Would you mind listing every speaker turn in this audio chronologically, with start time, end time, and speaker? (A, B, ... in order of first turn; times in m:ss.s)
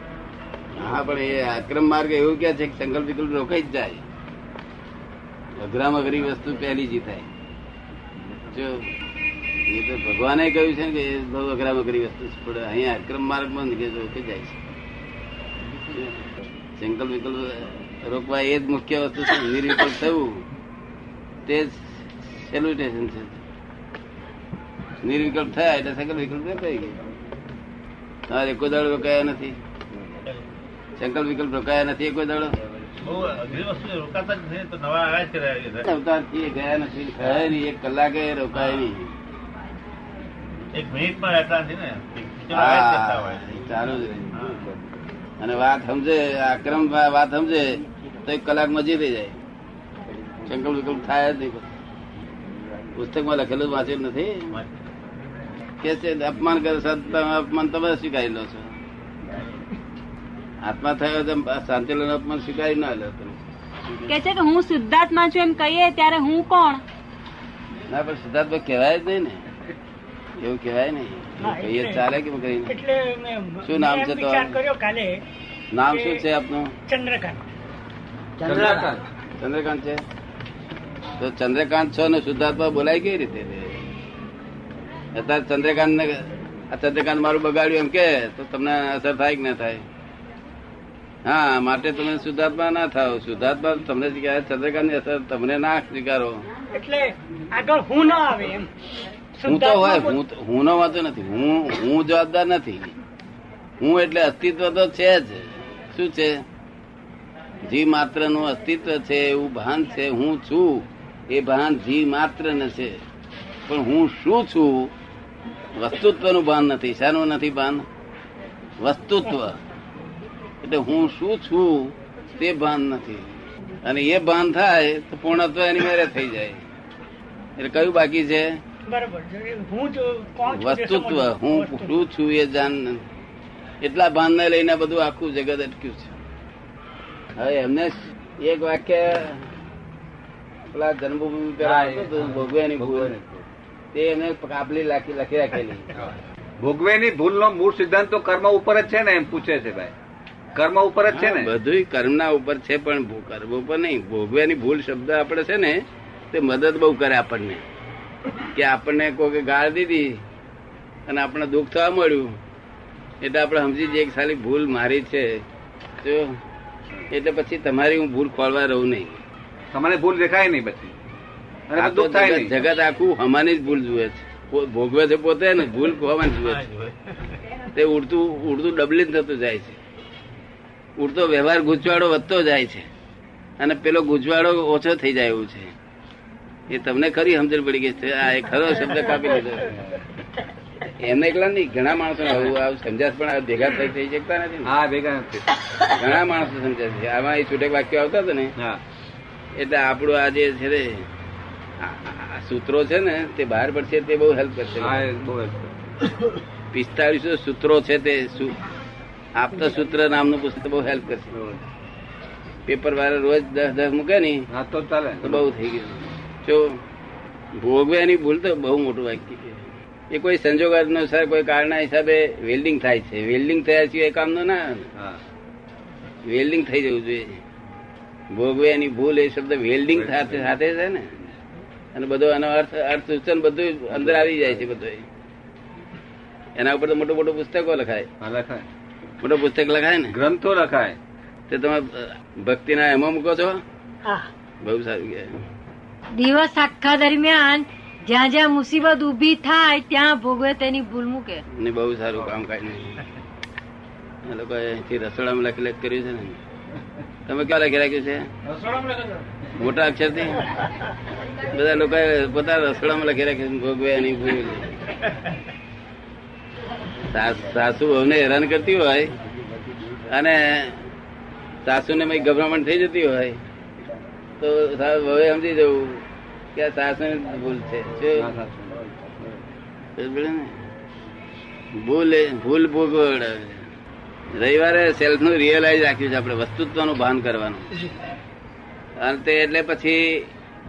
0:00.7-0:04.0 A
0:05.6-0:07.3 A
0:08.5-0:08.9 A
0:09.7-0:14.6 A
0:15.9-0:16.3 A
0:16.8-0:20.4 A
0:21.5-0:23.4 A
0:25.0-0:27.0 A
0:28.3-0:29.6 A
0:31.0-0:32.6 A
0:33.0-0:35.8 B
0:35.8-0:39.1 A
0:38.6-0:38.8 B
0:40.7-0:43.4 B
0:42.5-0:44.5 A
0:44.4-0:44.6 B
0:45.4-0:49.4 A
0:50.4-0:51.7 A
0:52.9-0:54.5 A
0:55.8-0:58.7 A
1:00.6-1:03.4 A
1:04.0-1:06.8 C
1:07.9-1:09.4 A
1:10.4-1:12.7 A
1:11.4-1:12.0 D
1:12.7-1:15.2 D
1:13.6-1:14.6 A
1:15.7-1:16.7 A
1:15.9-1:16.2 D
1:16.9-1:17.4 D
1:18.4-1:19.0 E
1:19.4-1:20.0 A
1:21.2-1:23.9 A
1:25.1-1:29.8 A
1:31.2-1:36.4 A
1:36.7-1:38.7 D
1:39.4-1:40.2 D
1:39.4-1:42.9 A
1:43.8-1:46.4 A
1:47.6-1:53.0 A
1:53.7-1:54.9 A
1:55.7-1:57.8 A
1:58.8-1:59.6 A
2:00.6-2:06.6 A
2:07.6-2:08.6 A
2:08.9-2:11.9 D
2:10.5-2:13.0 A
2:13.8-2:16.2 A
2:17.4-2:19.5 A
2:20.7-2:23.1 A
2:21.6-2:23.4 E
2:23.9-2:25.9 A
2:26.6-2:29.9 E
2:30.5-2:31.5 E
2:31.1-2:37.6 A
2:38.5-2:40.2 A
2:41.1-2:42.4 A
2:43.2-2:45.4 A
2:46.0-2:46.4 A
2:47.1-2:49.2 A
2:49.7-2:50.9 E
2:51.7-2:52.6 E
2:51.8-2:56.7 A
2:57.7-2:59.8 A
3:01.0-3:02.9 A
3:03.6-3:05.7 A
3:06.7-3:09.7 A
3:09.7-3:10.0 E
3:10.8-3:14.7 A
3:14.6-3:15.5 E
3:15.8-3:18.5 A
3:19.5-3:21.1 A
3:21.8-3:25.1 A
3:24.8-3:25.7 E
3:26.7-3:28.6 A
3:29.3-3:31.3 A
3:31.3-3:31.6 E
3:32.7-3:34.4 A
3:34.5-3:35.5 E
3:35.2-3:36.8 A
3:37.6-3:44.9 A
3:45.0-3:45.2 E
3:46.2-3:47.4 A
3:48.3-3:51.1 A
3:49.9-3:50.6 E
3:51.9-3:55.0 A
3:53.9-3:54.6 E
3:56.6-3:58.1 A
3:58.2-3:58.6 E
3:59.2-4:00.2 A
4:00.1-4:01.0 E
4:01.5-4:03.6 A
4:04.6-4:05.4 A
4:06.1-4:11.4 F
4:11.5-4:13.0 A
4:14.2-4:16.4 A
4:17.3-4:18.3 A
4:18.6-4:19.0 E
4:19.6-4:20.4 A
4:21.4-4:24.8 A
4:27.1-4:29.1 A
4:30.1-4:30.8 A
4:31.6-4:33.4 A
4:34.4-4:38.3 A
4:38.2-4:38.8 E
4:40.0-4:40.6 A
4:41.7-4:43.7 A
4:44.3-4:47.8 A
4:49.0-4:50.3 A